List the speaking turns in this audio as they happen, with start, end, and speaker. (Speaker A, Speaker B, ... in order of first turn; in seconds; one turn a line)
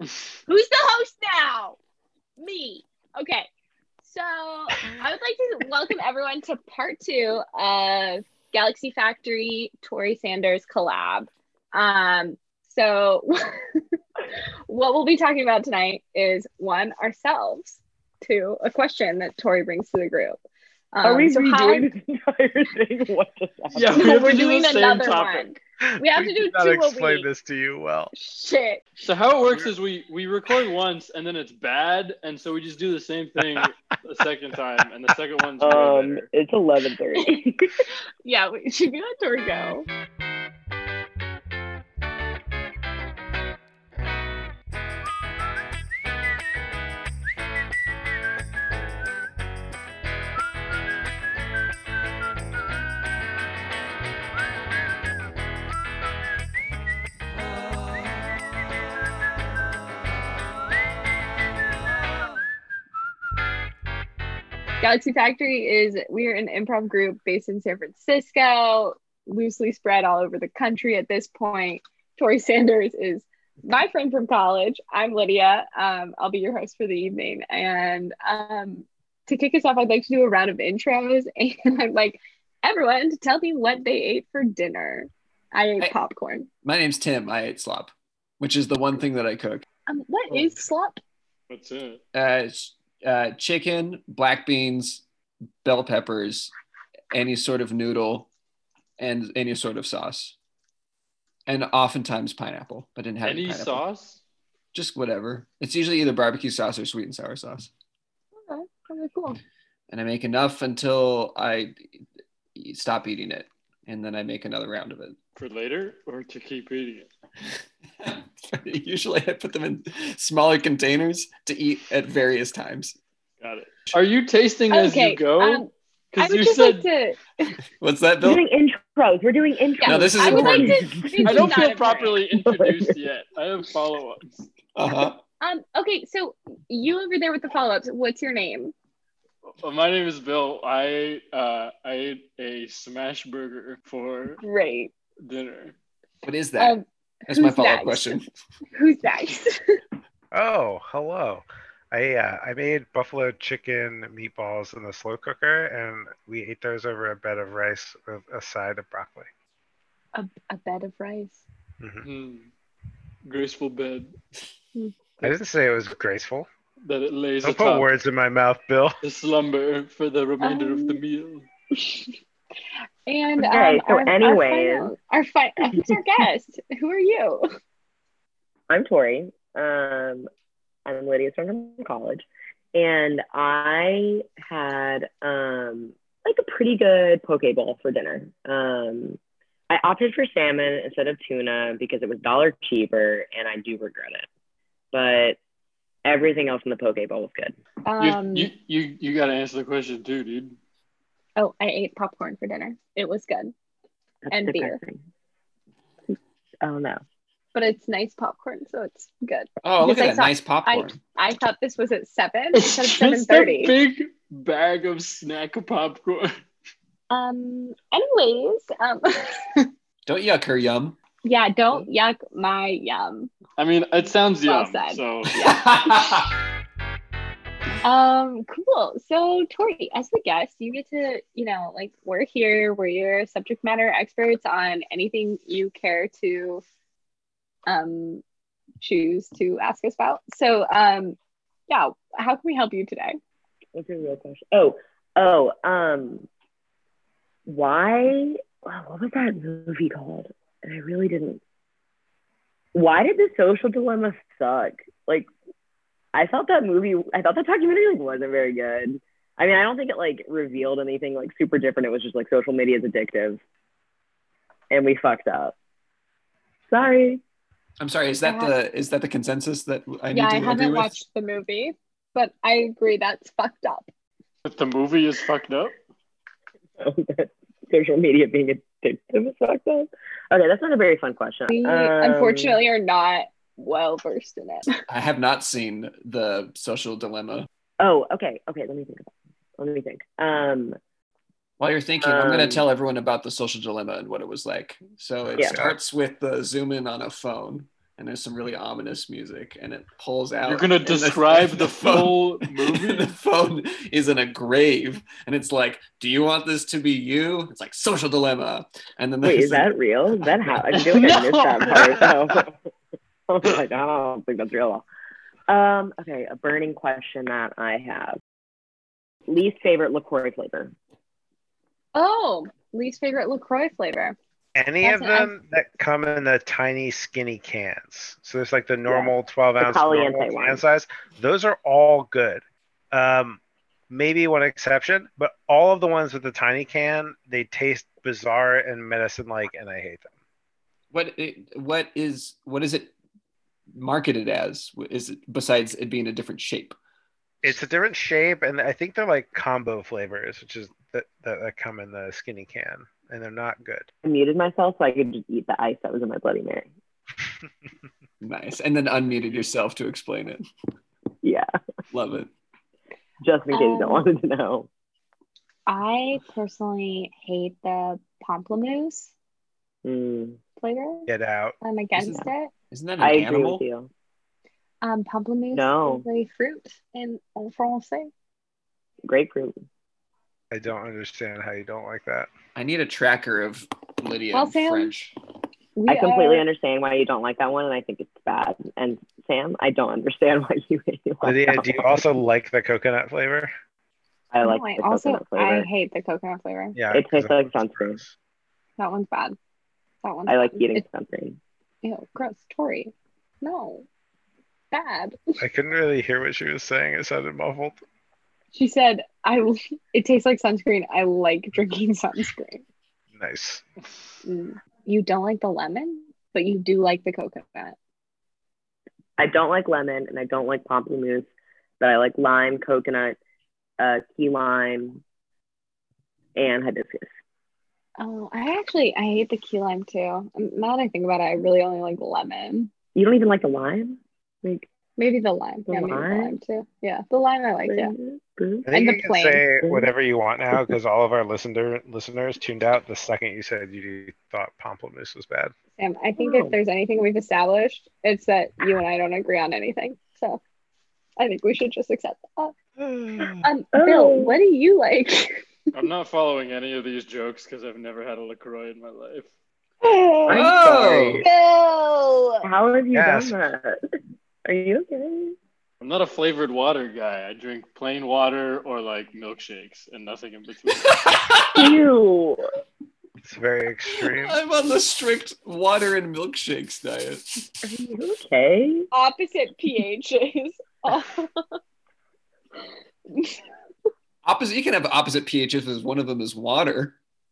Speaker A: 0.5-1.8
Speaker A: 2.4-3.5
Speaker A: 4.0-13.4
Speaker A: 14.7-20.4
Speaker A: 20.9-21.9
Speaker B: 21.0-24.1
Speaker C: 23.7-25.6
Speaker A: 23.9-27.3
Speaker D: 25.9-28.1
Speaker A: 28.1-28.8
Speaker C: 29.0-36.3
Speaker B: 35.6-37.7
Speaker A: 38.2-39.9
Speaker A: 64.8-86.5
Speaker E: 86.6-89.7
Speaker A: 89.9-91.0
Speaker D: 90.3-90.5
Speaker C: 91.5-92.0
Speaker E: 92.1-95.0
Speaker E: 95.6-96.5
Speaker E: 97.1-98.3
Speaker E: 99.0-100.4
Speaker E: 101.5-103.8
Speaker C: 103.2-104.2
Speaker E: 104.7-107.7
Speaker A: 108.5-109.4
Speaker E: 109.9-111.8
Speaker E: 112.6-115.2
Speaker C: 115.4-117.1
Speaker E: 118.0-123.0
Speaker C: 123.4-126.9
Speaker A: 124.7-127.5
Speaker E: 127.8-128.4
Speaker B: 128.2-131.5
Speaker A: 129.8-132.2
Speaker E: 129.8-131.3
Speaker C: 131.2-134.5
Speaker B: 132.3-133.0
Speaker E: 134.8-135.2
Speaker A: 135.4-138.7
Speaker C: 139.6-144.4
Speaker A: 144.4-144.9
Speaker C: 145.2-145.8
Speaker E: 146.2-148.3
Speaker A: 146.6-148.2
Speaker A: 148.7-149.6
Speaker D: 150.3-159.3
Speaker A: 160.1-161.4
Speaker D: 161.8-162.1
Speaker C: 162.0-162.5
Speaker C: 163.2-164.1
Speaker D: 165.2-166.5
Speaker C: 166.8-167.9
Speaker D: 167.4-169.0
Speaker C: 169.0-171.5
Speaker A: 170.4-171.0
Speaker A: 171.8-172.2
Speaker A: 173.1-177.5
Speaker B: 173.4-174.9
Speaker B: 178.7-180.3
Speaker B: 180.8-189.2
Speaker B: 189.7-194.3
Speaker B: 194.9-195.4
Speaker B: 196.1-197.6
Speaker A: 197.8-198.5
Speaker C: 198.0-200.6
Speaker A: 201.4-203.5
Speaker B: 204.3-205.0
Speaker A: 204.3-204.8
Speaker B: 206.1-207.0
Speaker A: 207.5-213.8
Speaker E: 209.6-211.0
Speaker C: 212.5-216.3
Speaker A: 217.1-219.7
Speaker E: 220.1-221.0
Speaker A: 221.2-223.3
Speaker C: 223.6-225.5
Speaker A: 224.4-226.1
Speaker E: 225.4-226.3
Speaker A: 227.8-236.6
Speaker A: 237.7-238.2
Speaker A: 238.8-243.2
Speaker B: 243.8-246.3
Speaker B: 247.5-251.4
Speaker B: 252.8-255.3
Speaker B: 256.1-263.4
Speaker B: 264.7-265.5
Speaker B: 266.7-267.2
Speaker E: 267.8-271.0
Speaker A: 268.2-268.6
Speaker A: 270.1-273.9
Speaker C: 274.4-275.8
Speaker B: 276.8-282.6
Speaker A: 281.5-284.7
Speaker E: 284.9-287.5
Speaker B: 287.8-290.8
Speaker E: 291.6-309.7
Speaker B: 292.0-292.7
Speaker D: 295.3-295.8
Speaker C: 300.4-303.1
Speaker B: 309.2-312.5
Speaker C: 310.7-312.2
Speaker B: 313.3-314.8
Speaker B: 315.5-318.2
Speaker B: 319.3-320.7
Speaker A: 321.9-324.2
Speaker D: 324.6-340.1
Speaker A: 324.8-325.3
Speaker B: 328.9-330.6
Speaker E: 340.9-342.9
Speaker E: 343.8-346.8
Speaker D: 347.4-353.9
Speaker B: 354.0-356.7
Speaker E: 358.2-360.4
Speaker E: 361.9-362.3
Speaker B: 363.2-364.7
Speaker A: 363.5-364.1
Speaker A: 365.7-369.1
Speaker B: 369.8-370.4
Speaker A: 370.6-371.1
Speaker D: 371.1-371.6
Speaker A: 371.6-372.5
Speaker E: 371.9-373.6
Speaker B: 373.0-373.9
Speaker A: 374.8-378.1
Speaker B: 375.5-376.1
Speaker B: 379.1-379.6
Speaker D: 380.5-382.3
Speaker E: 382.6-385.2
Speaker A: 384.3-384.9
Speaker A: 385.8-386.5
Speaker B: 385.9-392.0
Speaker D: 391.2-393.5
Speaker B: 394.3-395.7
Speaker A: 394.4-396.8
Speaker D: 396.8-398.1
Speaker B: 396.9-398.0
Speaker A: 398.8-399.4
Speaker A: 400.0-400.8
Speaker B: 400.3-401.4
Speaker A: 401.8-403.9
Speaker A: 404.7-405.2
Speaker D: 405.4-407.8
Speaker A: 408.5-412.6
Speaker D: 413.1-413.6
Speaker A: 414.2-417.8
Speaker B: 419.2-421.3
Speaker B: 421.8-423.2
Speaker B: 423.8-425.0
Speaker B: 426.4-427.1
Speaker A: 428.0-432.7
Speaker B: 432.9-434.7
Speaker A: 435.0-437.9
Speaker B: 435.7-436.4
Speaker B: 437.7-438.7
Speaker D: 438.7-445.5
Speaker A: 438.7-439.4
Speaker B: 439.6-439.9
Speaker A: 445.8-450.4
Speaker B: 446.2-446.6
Speaker A: 451.2-452.5
Speaker D: 452.8-453.5
Speaker A: 453.4-455.5
Speaker B: 453.7-454.4
Speaker C: 455.8-459.3
Speaker B: 459.9-461.3
Speaker A: 460.1-460.5
Speaker E: 460.3-461.2
Speaker A: 461.2-462.5
Speaker B: 462.4-463.8
Speaker D: 462.9-463.4
Speaker B: 464.4-465.4
Speaker C: 465.8-470.9
Speaker E: 470.8-471.8
Speaker B: 471.6-472.4
Speaker D: 473.2-474.4
Speaker E: 473.9-477.4
Speaker B: 477.6-478.9
Speaker A: 478.9-481.4
Speaker A: 483.1-483.4
Speaker E: 484.2-487.0